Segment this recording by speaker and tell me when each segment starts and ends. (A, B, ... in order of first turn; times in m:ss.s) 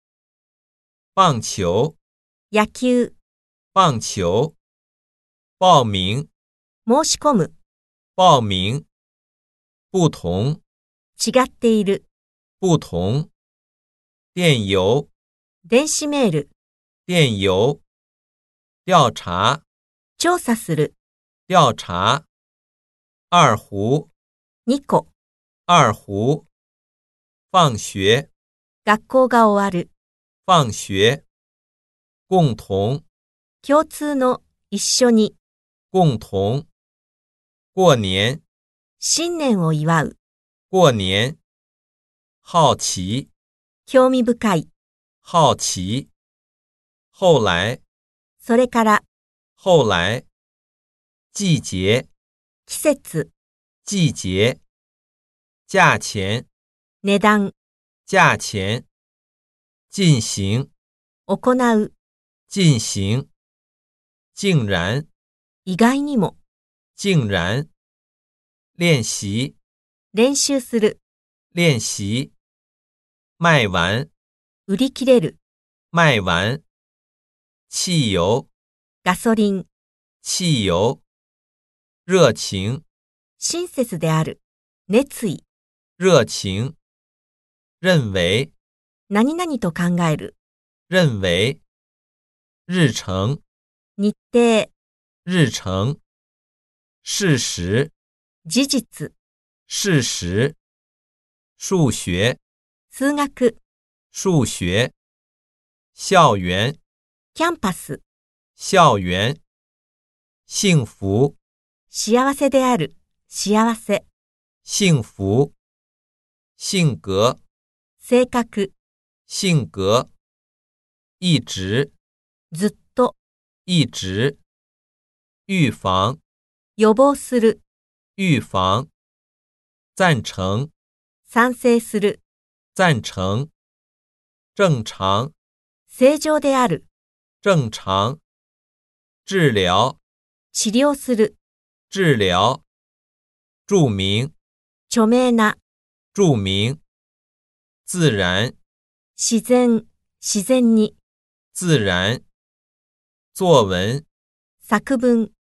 0:01.2-0:02.0 A
0:02.5-0:03.2 B
0:03.7-0:04.6 A
0:05.6-0:06.3 A
0:06.9-0:07.5 B
0:08.2-0:08.9 A
0:09.9-0:10.6 A
0:11.2-0:12.0 B
0:12.6-0:13.3 A
0:14.4-0:15.1 A
0:15.7-0:16.5 B
0:17.1-0:17.8 A
0:18.9-0:19.6 A
0:20.2-0:20.9 B
0:21.5-0:22.3 A
0:23.3-0:24.1 A
0:24.7-0:25.1 B
0:25.7-0:26.5 A
0:27.5-0:28.3 A
0:28.8-0:29.9 B
0:30.5-0:31.2 A
0:32.3-0:33.0 A
0:33.6-0:35.4 B
0:35.9-0:36.7 A
0:37.7-0:38.4 A
0:39.0-0:40.2 B
0:40.7-0:41.4 A
0:42.4-0:43.3 A
0:43.9-0:44.7 B
0:45.2-0:46.1 A
0:47.2-0:47.8 A
0:48.4-0:49.0 B
0:49.6-0:50.3 A
0:51.3-0:52.1 A
0:52.7-0:53.3 B
0:53.8-0:54.6 A
0:55.7-0:56.5 A
0:57.0-0:57.5 B
0:58.1-0:58.8 A
0:59.9-1:00.7 A
1:01.3-1:01.9 B
1:02.5-1:03.3 A
1:04.4-1:05.1 A
1:05.6-1:06.4 B
1:07.0-1:07.7 A
1:08.8-1:09.6 A
1:10.1-1:11.0 B
1:11.5-1:12.3 A
1:13.4-1:14.1 A
1:14.7-1:15.4 B
1:15.9-1:16.6 A
1:17.7-1:18.5 A
1:19.0-1:19.7 B
1:20.2-1:21.0 A
1:22.1-1:22.8 A
1:23.4-1:25.4 B
1:26.0-1:26.8 A
1:27.8-1:28.5 A
1:29.1-1:30.4 B
1:30.9-1:31.6 A
1:32.7-1:33.4 A
1:34.0-1:34.7 B
1:35.2-1:36.0 A
1:37.0-1:37.9 A
1:38.5-1:39.1 B
1:39.7-1:40.6 A
1:41.6-1:42.4 A
1:42.9-1:43.6 B
1:44.1-1:44.9 A
1:46.0-1:46.8 A
1:47.4-1:48.0 B
1:48.6-1:49.4 A
1:50.5-1:51.4 A
1:51.9-1:54.0 B
1:54.6-1:55.5 A
1:56.6-1:57.4 A
1:58.0-1:58.7 B
1:59.3-2:00.1 A
2:01.2-2:01.9 A
2:02.5-2:03.2 B
2:03.7-2:04.4 A
2:05.5-2:06.2 A
2:06.8-2:07.6 B
2:08.2-2:08.9 A
2:10.0-2:10.7 A
2:11.3-2:12.2 B
2:12.8-2:13.5 A
2:14.6-2:15.3 A
2:15.9-2:16.8 B
2:17.4-2:18.2 A
2:19.3-2:20.0 A
2:20.5-2:21.4 B
2:21.9-2:22.6 A
2:23.7-2:24.3 A
2:24.9-2:25.6 B
2:26.1-2:26.8 A
2:27.9-2:28.6 A
2:29.2-2:31.0 B
2:31.5-2:32.2 A
2:33.3-2:34.0 A
2:34.6-2:35.3 B